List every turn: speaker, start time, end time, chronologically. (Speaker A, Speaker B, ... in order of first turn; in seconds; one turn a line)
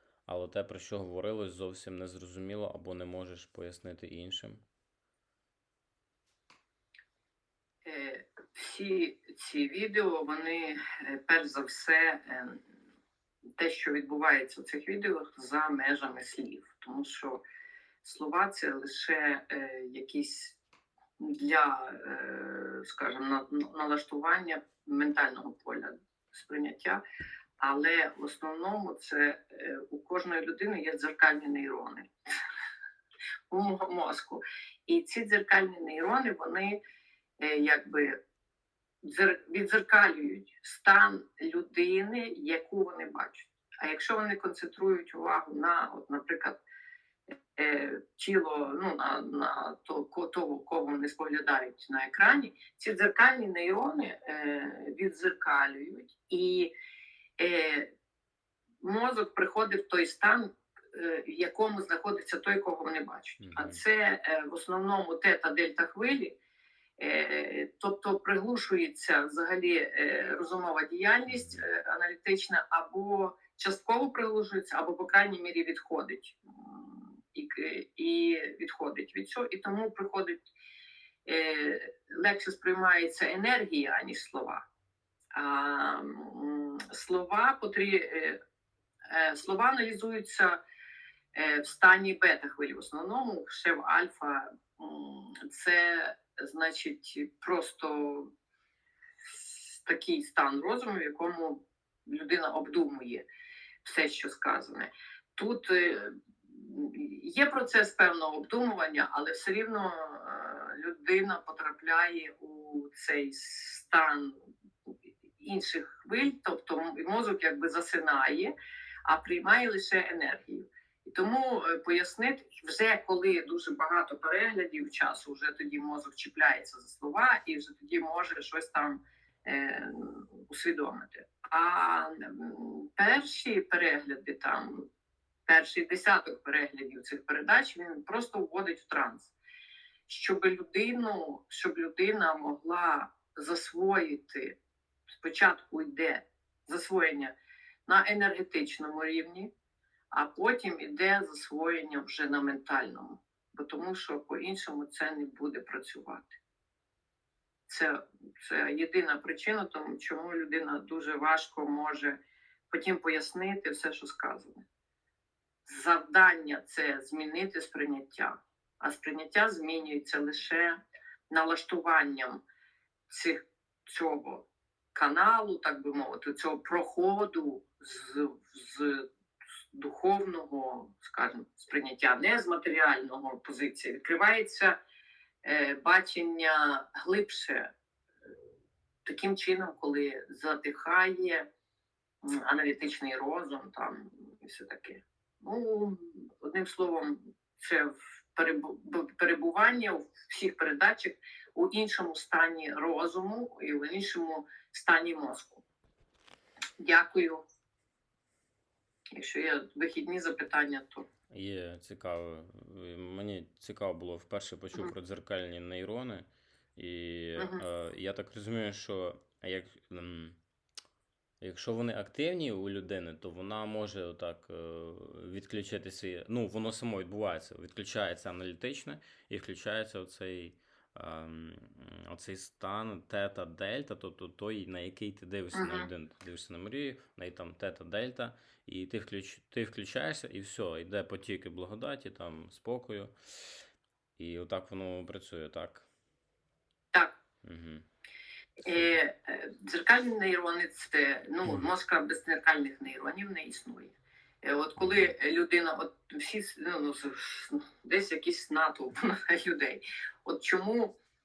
Speaker A: 0.3-4.6
Speaker B: 7.8-12.6
Speaker B: 13.6-17.4
Speaker B: 18.0-20.6
Speaker B: 21.2-27.0
Speaker B: 27.6-32.1
Speaker B: 33.5-36.8
Speaker B: 37.4-38.2
Speaker B: 39.0-46.6
Speaker B: 47.5-56.7
Speaker B: 57.4-57.9
Speaker B: 58.8-66.4
Speaker A: 63.4-63.8
Speaker B: 67.0-80.4
Speaker A: 71.3-71.6
Speaker B: 81.2-84.6
Speaker B: 85.3-88.4
Speaker B: 89.1-90.6
Speaker B: 91.3-98.3
Speaker B: 99.2-103.3
Speaker B: 103.8-114.4
Speaker B: 115.4-118.5
Speaker B: 119.1-134.9
Speaker B: 135.5-139.3
Speaker B: 140.1-144.6
Speaker B: 145.2-147.3
Speaker B: 147.9-149.5
Speaker B: 150.1-156.4
Speaker B: 157.7-162.2
Speaker B: 162.7-164.7
Speaker B: 165.7-170.8
Speaker B: 171.3-172.4
Speaker B: 173.1-179.1
Speaker B: 179.7-184.8
Speaker B: 185.4-187.7
Speaker B: 189.1-191.5
Speaker B: 192.2-205.6
Speaker B: 206.8-207.4
Speaker B: 209.2-211.1
Speaker A: 211.3-220.4
Speaker B: 217.4-217.6
Speaker A: 221.4-243.6
Speaker B: 235.5-235.9
Speaker A: 244.2-245.9
Speaker B: 246.9-247.2
Speaker A: 247.4-247.9
Speaker B: 248.7-261.0
Speaker A: 248.7-249.0
Speaker A: 254.8-255.1